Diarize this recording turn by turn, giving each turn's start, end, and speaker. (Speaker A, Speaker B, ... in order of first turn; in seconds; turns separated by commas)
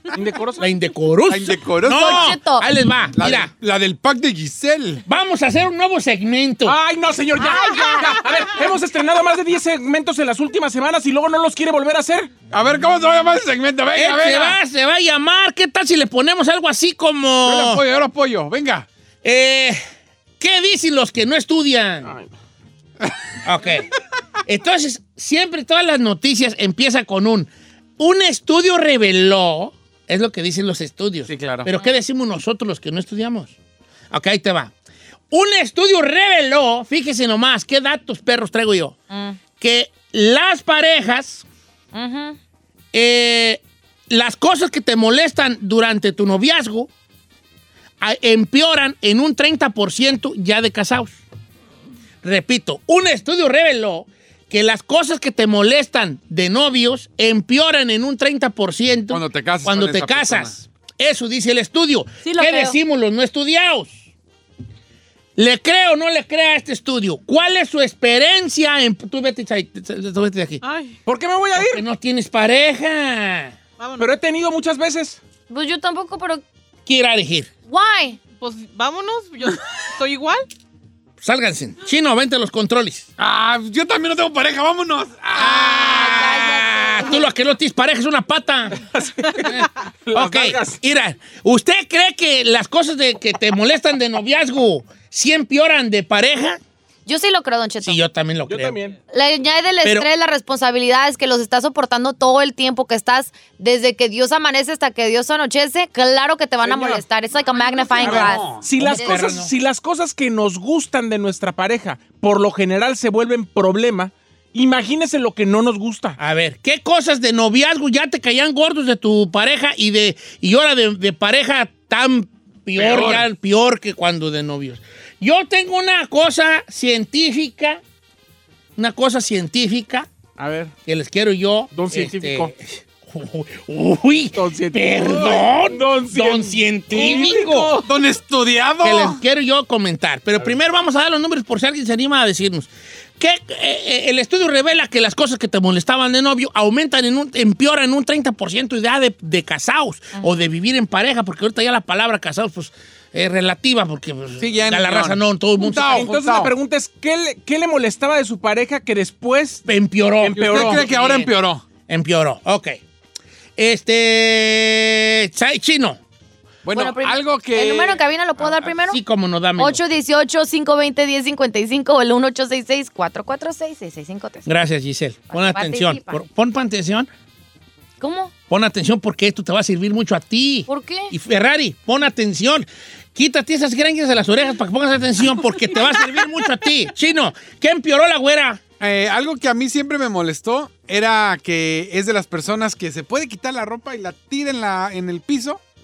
Speaker A: 0.1-0.7, Speaker B: 0.6-3.5, Speaker C: 1.3-2.4, Speaker D: 1.9-2.7, Speaker C: 3.2-5.0, Speaker B: 5.1-6.8, Speaker A: 6.7-12.3, Speaker D: 7.4-8.2, Speaker C: 12.5-14.6, Speaker B: 13.9-17.8, Speaker C: 17.4-18.9, Speaker B: 19.2-19.8, Speaker B: 20.4-22.1, Speaker A: 22.1-22.3, Speaker B: 23.4-23.9, Speaker B: 24.5-33.6, Speaker C: 31.3-31.7, Speaker B: 34.1-34.7, Speaker B: 35.3-39.0, Speaker D: 39.1-39.4, Speaker B: 39.6-41.5, Speaker D: 41.9-42.4, Speaker B: 42.9-46.9, Speaker B: 48.0-51.2, Speaker B: 52.2-64.0, Speaker C: 59.1-60.6, Speaker D: 62.2-62.8, Speaker B: 65.4-70.6, Speaker E: 70.6-71.0, Speaker A: 71.0-71.8, Speaker B: 71.5-73.5, Speaker E: 73.8-74.1, Speaker A: 74.0-75.2, Speaker D: 75.5-76.4, Speaker B: 76.9-77.5, Speaker D: 77.7-78.2, Speaker E: 78.4-80.5, Speaker B: 81.2-83.1, Speaker C: 83.2-86.3, Speaker B: 85.3-88.8, Speaker D: 85.4-87.3, Speaker A: 88.8-90.8, Speaker B: 89.4-96.6, Speaker D: 97.1-98.0, Speaker B: 97.8-98.8, Speaker A: 98.5-99.0, Speaker D: 99.1-109.2, Speaker A: 106.6-107.0, Speaker C: 108.0-108.7, Speaker A: 108.0-116.2, Speaker B: 108.8-109.5, Speaker B: 116.2-127.8, Speaker C: 122.8-123.3, Speaker B: 128.8-130.1, Speaker A: 130.4-130.7, Speaker B: 130.9-137.8, Speaker A: 131.7-132.5, Speaker A: 134.3-137.9, Speaker C: 137.8-139.2, Speaker B: 138.8-156.1, Speaker C: 154.4-156.5, Speaker A: 155.8-159.7, Speaker B: 159.7-161.3, Speaker A: 160.2-160.9, Speaker C: 160.3-161.6, Speaker B: 161.9-162.8, Speaker B: 163.6-166.0, Speaker C: 166.6-168.7, Speaker D: 166.7-169.0, Speaker B: 168.9-169.8, Speaker D: 169.6-174.5, Speaker B: 174.5-177.1, Speaker D: 175.3-176.2, Speaker D: 178.0-178.3, Speaker B: 178.5-188.6, Speaker D: 180.7-181.1, Speaker C: 188.8-195.6